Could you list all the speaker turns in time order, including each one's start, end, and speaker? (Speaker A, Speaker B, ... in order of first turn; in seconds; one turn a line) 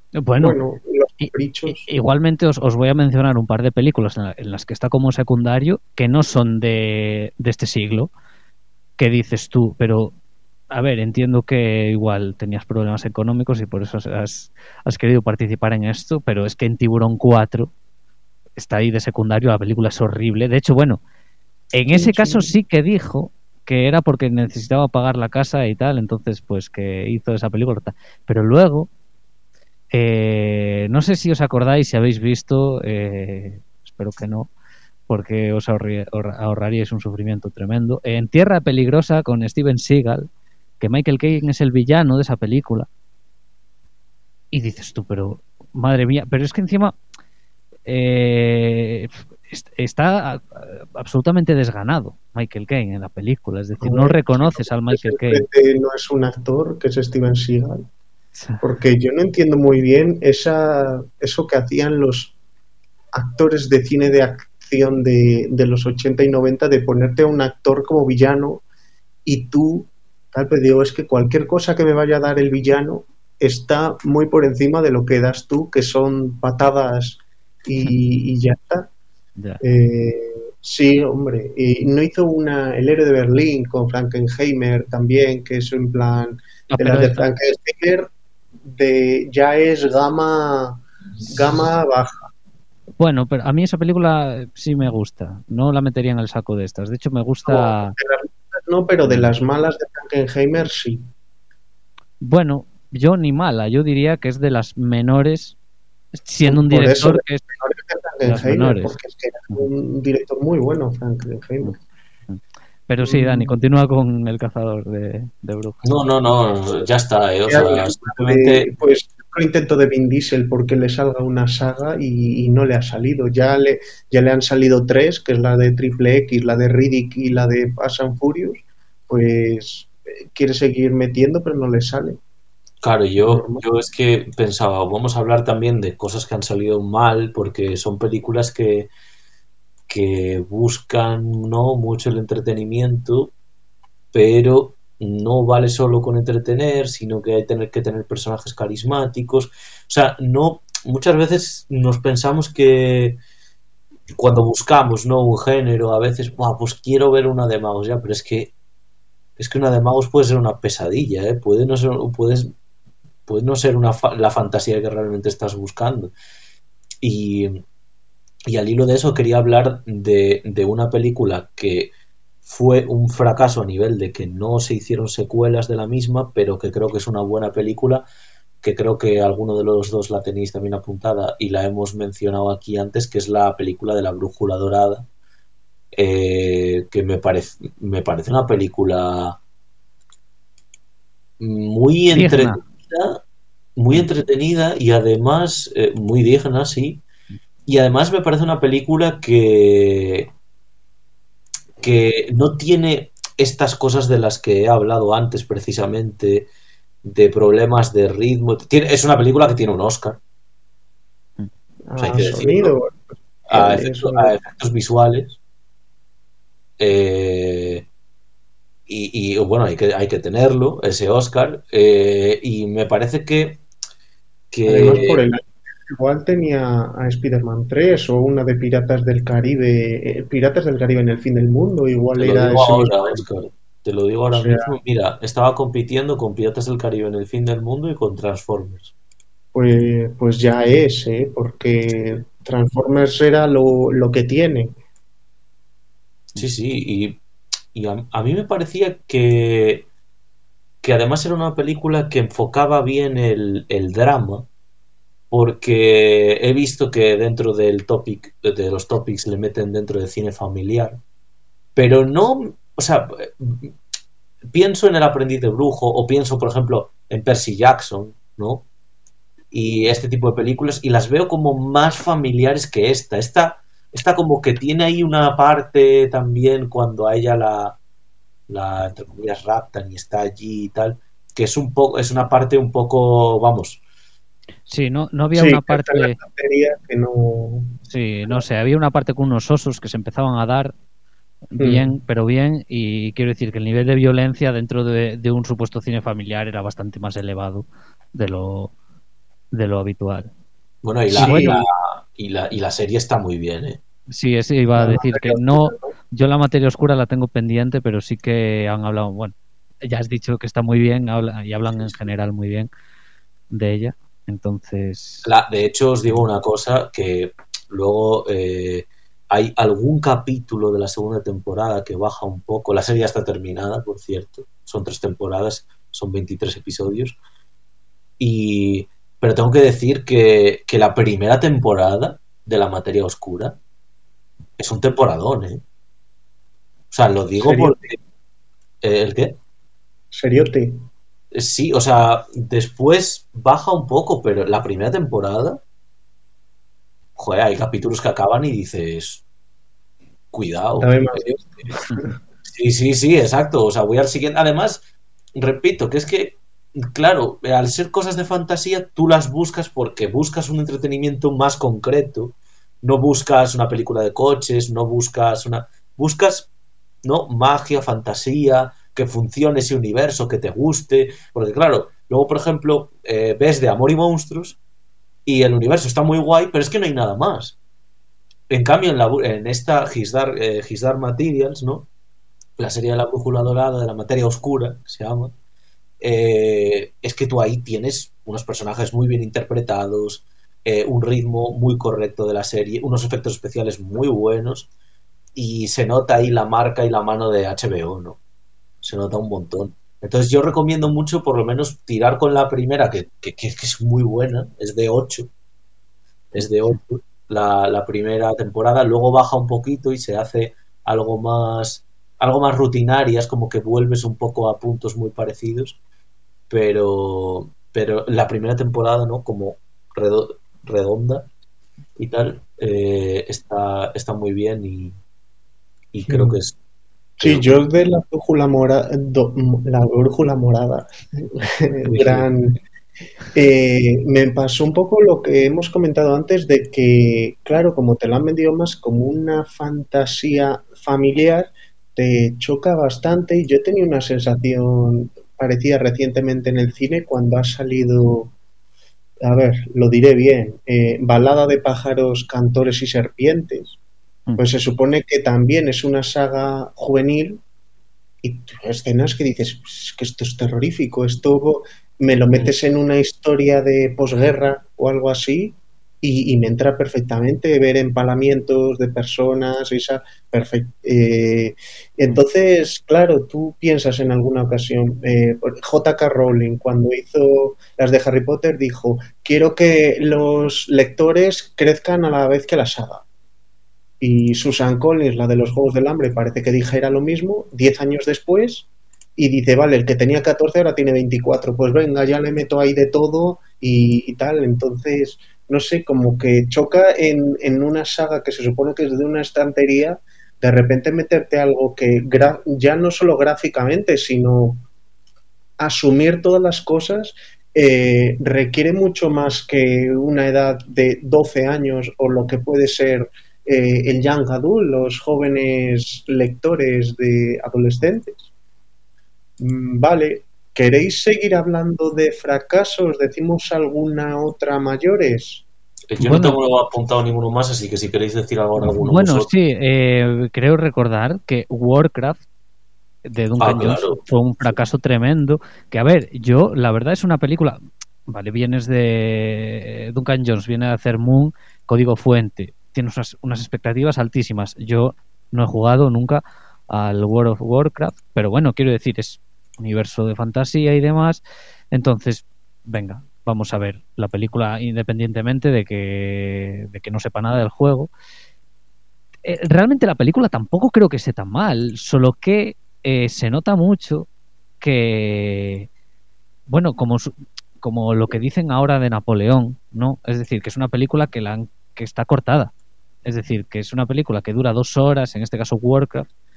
Speaker A: 0.2-0.6
Speaker B: 0.4-1.9
Speaker A: 1.2-8.1
Speaker A: 9.0-10.1
Speaker A: 10.7-17.7
Speaker A: 18.6-21.0
Speaker A: 21.7-28.9
Speaker B: 21.9-22.6
Speaker A: 29.9-34.5
Speaker A: 35.1-40.3
Speaker A: 40.8-42.9
Speaker A: 44.5-47.0
Speaker A: 47.9-55.4
Speaker B: 53.8-57.9
Speaker A: 58.4-58.6
Speaker B: 58.6-62.4
Speaker B: 63.1-68.6
Speaker B: 69.2-78.9
Speaker B: 79.6-88.1
Speaker A: 86.7-87.3
Speaker B: 88.6-92.3
Speaker A: 93.0-97.9
Speaker B: 97.5-101.1
Speaker A: 99.0-99.3
Speaker A: 102.2-105.6
Speaker A: 106.2-107.4
Speaker B: 106.5-111.8
Speaker A: 108.2-108.9
Speaker A: 112.3-115.8
Speaker B: 113.0-113.6
Speaker C: 115.8-118.7
Speaker B: 117.5-132.2
Speaker C: 132.8-138.9
Speaker B: 133.2-133.6
Speaker C: 139.9-143.3
Speaker C: 144.1-153.2
Speaker C: 154.1-158.5
Speaker C: 159.4-162.5
Speaker C: 163.3-166.1
Speaker C: 167.0-167.6
Speaker C: 168.5-171.9
Speaker C: 172.4-178.1
Speaker C: 178.6-185.1
Speaker C: 185.9-189.4
Speaker C: 191.4-193.2
Speaker A: 192.1-192.6
Speaker C: 193.8-197.0
Speaker C: 197.7-200.3
Speaker C: 201.8-206.5
Speaker C: 207.0-210.2
Speaker B: 211.9-214.3
Speaker C: 212.0-212.7
Speaker C: 213.5-215.4
Speaker C: 216.8-217.9
Speaker C: 218.9-223.6
Speaker C: 224.5-225.2
Speaker B: 224.7-233.2
Speaker C: 232.2-238.9
Speaker B: 234.3-234.8
Speaker B: 239.5-244.8
Speaker C: 246.4-247.2
Speaker C: 247.7-249.9
Speaker C: 250.8-254.5
Speaker C: 255.3-261.0
Speaker C: 261.8-263.8
Speaker C: 264.5-268.7
Speaker C: 269.5-277.8
Speaker C: 278.5-283.8
Speaker A: 284.7-286.2
Speaker B: 285.3-288.4
Speaker A: 287.9-290.7
Speaker A: 291.5-298.7
Speaker B: 291.6-291.9
Speaker A: 299.5-300.3
Speaker C: 300.8-303.8
Speaker A: 301.1-301.6
Speaker B: 301.1-301.6
Speaker A: 304.1-309.3
Speaker B: 304.8-305.9
Speaker A: 309.9-312.7
Speaker A: 313.5-315.3
Speaker C: 315.2-327.2
Speaker C: 328.2-333.6
Speaker C: 334.6-335.6
Speaker C: 336.9-338.0
Speaker B: 337.4-337.9
Speaker C: 338.8-339.4
Speaker B: 340.1-340.9
Speaker C: 341.3-345.6
Speaker C: 347.2-349.2
Speaker C: 350.3-351.4
Speaker B: 350.8-352.1
Speaker C: 352.4-354.9
Speaker C: 355.4-366.5
Speaker C: 367.0-374.6
Speaker C: 375.2-377.6
Speaker C: 378.5-381.9
Speaker C: 382.6-385.3
Speaker C: 386.0-394.7
Speaker C: 395.4-398.2
Speaker C: 398.8-405.3
Speaker C: 406.3-415.8
Speaker C: 416.5-421.3
Speaker C: 422.0-425.0
Speaker C: 425.9-426.5
Speaker B: 426.1-426.4
Speaker B: 427.2-432.6
Speaker C: 427.2-427.6
Speaker C: 431.9-432.3
Speaker B: 433.3-448.3
Speaker B: 449.2-453.8
Speaker B: 454.4-457.4
Speaker B: 458.2-483.0
Speaker B: 484.0-504.6
Speaker B: 505.6-518.3
Speaker B: 519.4-525.4
Speaker C: 525.9-529.3
Speaker A: 526.0-526.4
Speaker A: 528.8-532.2
Speaker A: 533.0-551.2
Speaker C: 533.4-534.0
Speaker A: 551.7-557.9
Speaker A: 559.2-564.1
Speaker A: 564.6-565.7
Speaker A: 566.5-572.5
Speaker A: 573.1-576.1